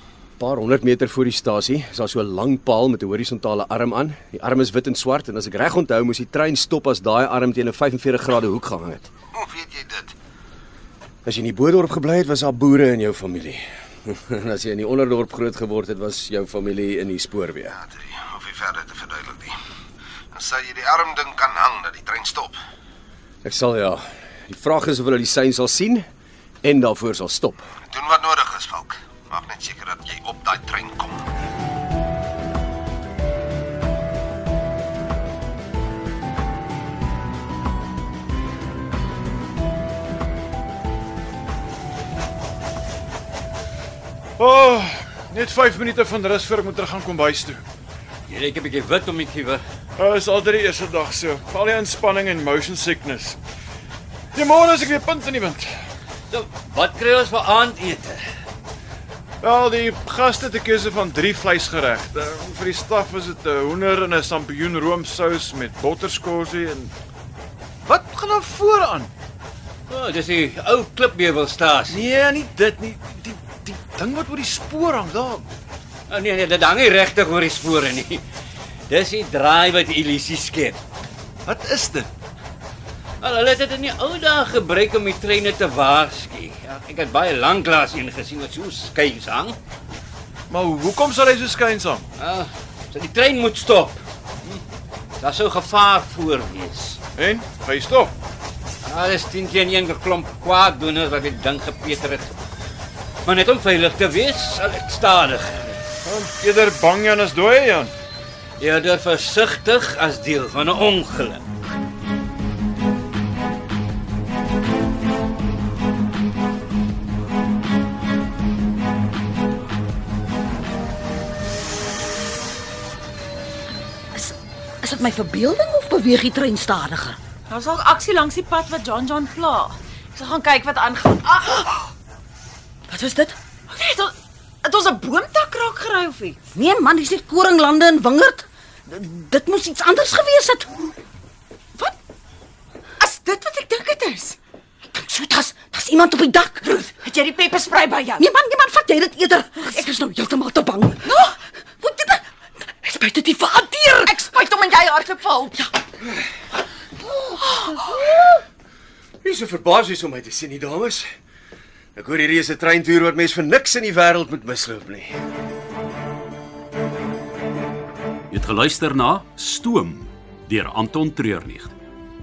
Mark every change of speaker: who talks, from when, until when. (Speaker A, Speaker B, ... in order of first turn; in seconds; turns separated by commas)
Speaker A: 0.4-9.1, Speaker B: 9.3-10.1, Speaker A: 11.2-17.8, Speaker B: 17.7-19.6, Speaker B: 20.3-22.6, Speaker A: 23.4-26.1, Speaker A: 26.6-27.7, Speaker B: 27.9-31.3, Speaker C: 44.4-47.6, Speaker D: 48.3-49.6, Speaker C: 50.0-53.4, Speaker C: 54.3-55.7, Speaker D: 56.3-58.2, Speaker C: 59.4-66.9, Speaker C: 67.8-69.1, Speaker D: 69.9-72.0, Speaker C: 71.9-75.5, Speaker D: 76.1-78.2, Speaker D: 78.9-80.8, Speaker C: 81.5-82.1, Speaker D: 83.2-89.6, Speaker C: 90.5-92.0, Speaker D: 92.2-94.6, Speaker D: 95.2-97.0, Speaker C: 97.1-98.1, Speaker D: 98.8-102.3, Speaker D: 103.2-105.8, Speaker C: 106.0-107.9, Speaker D: 108.6-111.4, Speaker E: 124.1-127.2, Speaker F: 127.5-131.9, Speaker E: 132.9-133.3, Speaker F: 133.7-136.4, Speaker E: 136.5-140.7, Speaker F: 143.0-144.4, Speaker E: 144.9-146.9, Speaker F: 147.0-148.3, Speaker E: 148.2-151.1, Speaker F: 151.0-151.3, Speaker E: 151.8-152.2, Speaker E: 152.8-154.3, Speaker F: 154.0-155.7, Speaker F: 157.3-158.3, Speaker A: 159.2-161.1, Speaker A: 161.9-165.1, Speaker G: 168.3-171.7